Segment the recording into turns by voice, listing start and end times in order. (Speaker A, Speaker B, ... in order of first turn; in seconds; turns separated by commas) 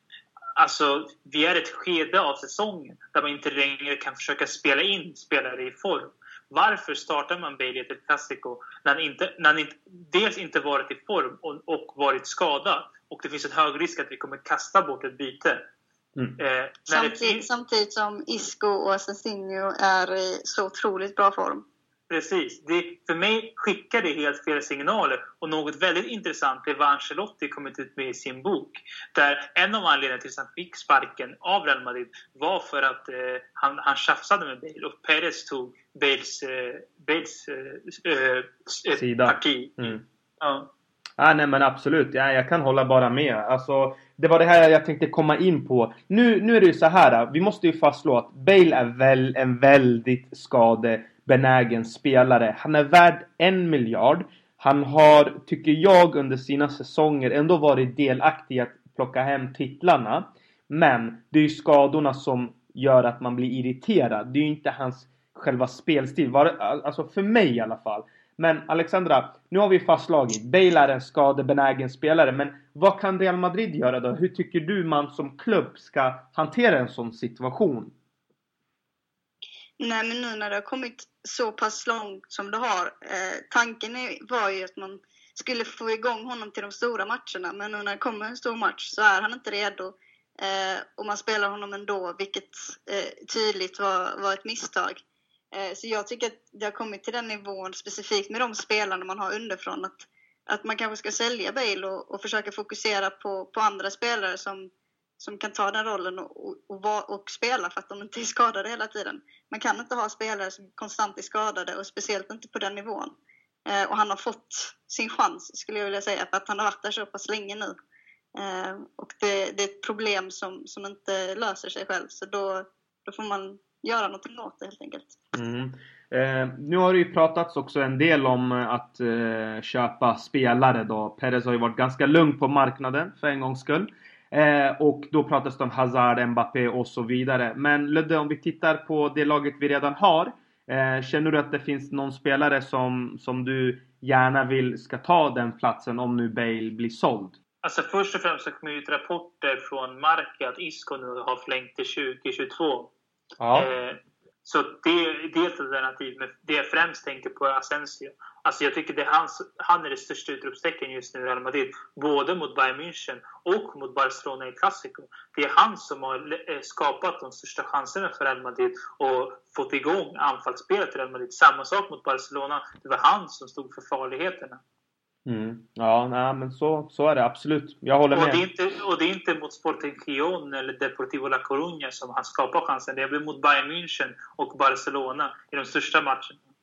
Speaker A: 0.6-15.6, Speaker A: 16.4-17.4, Speaker B: 16.9-21.6, Speaker A: 22.1-40.7, Speaker C: 38.9-40.0, Speaker C: 41.2-77.9, Speaker B: 79.8-113.1, Speaker B: 113.7-117.8, Speaker B: 118.3-125.2, Speaker C: 125.3-147.3, Speaker A: 147.6-152.9, Speaker C: 153.4-153.7, Speaker A: 153.5-174.6, Speaker C: 175.2-178.4, Speaker A: 178.1-186.4